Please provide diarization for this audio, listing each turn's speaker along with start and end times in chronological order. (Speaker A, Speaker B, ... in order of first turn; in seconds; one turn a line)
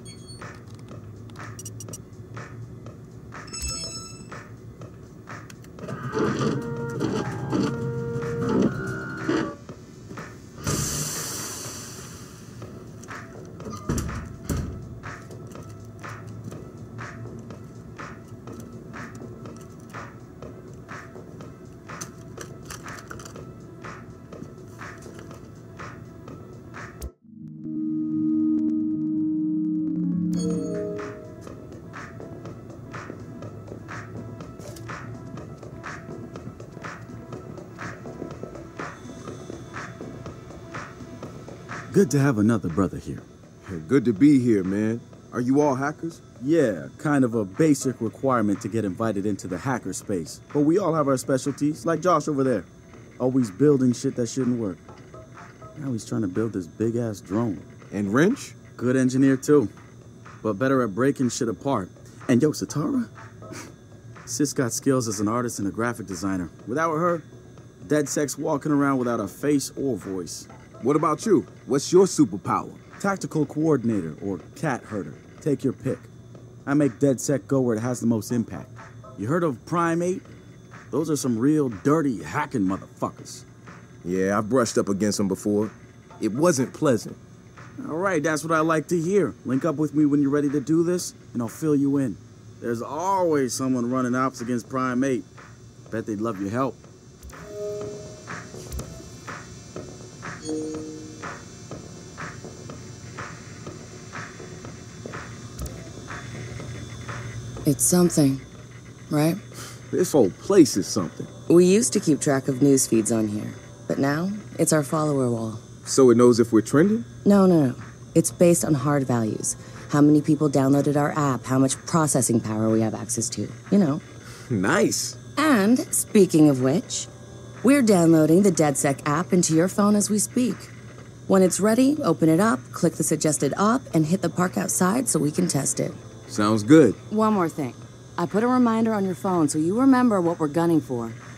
Speaker A: 41.9-43.2
Speaker B: 43.6-46.2
Speaker A: 46.4-52.7
Speaker A: 53.2-54.8
Speaker A: 55.8-57.7
Speaker B: 57.9-58.6
Speaker A: 58.7-59.7
Speaker A: 60.4-63.1
Speaker A: 64.2-67.2
Speaker A: 67.8-70.5
Speaker B: 70.8-72.8
Speaker A: 73.0-76.1
Speaker A: 76.6-80.2
Speaker A: 80.9-83.4
Speaker B: 84.0-87.2
Speaker A: 87.8-95.3
Speaker A: 95.9-96.8
Speaker C: 107.7-108.4
Speaker C: 109.1-109.4
Speaker B: 109.9-111.3
Speaker C: 111.5-115.6
Speaker B: 115.8-117.0
Speaker C: 117.2-124.0
Speaker B: 124.5-125.2
Speaker C: 125.3-127.1
Speaker C: 127.6-130.7
Speaker C: 131.3-136.0
Speaker B: 136.3-137.0
Speaker C: 137.1-141.2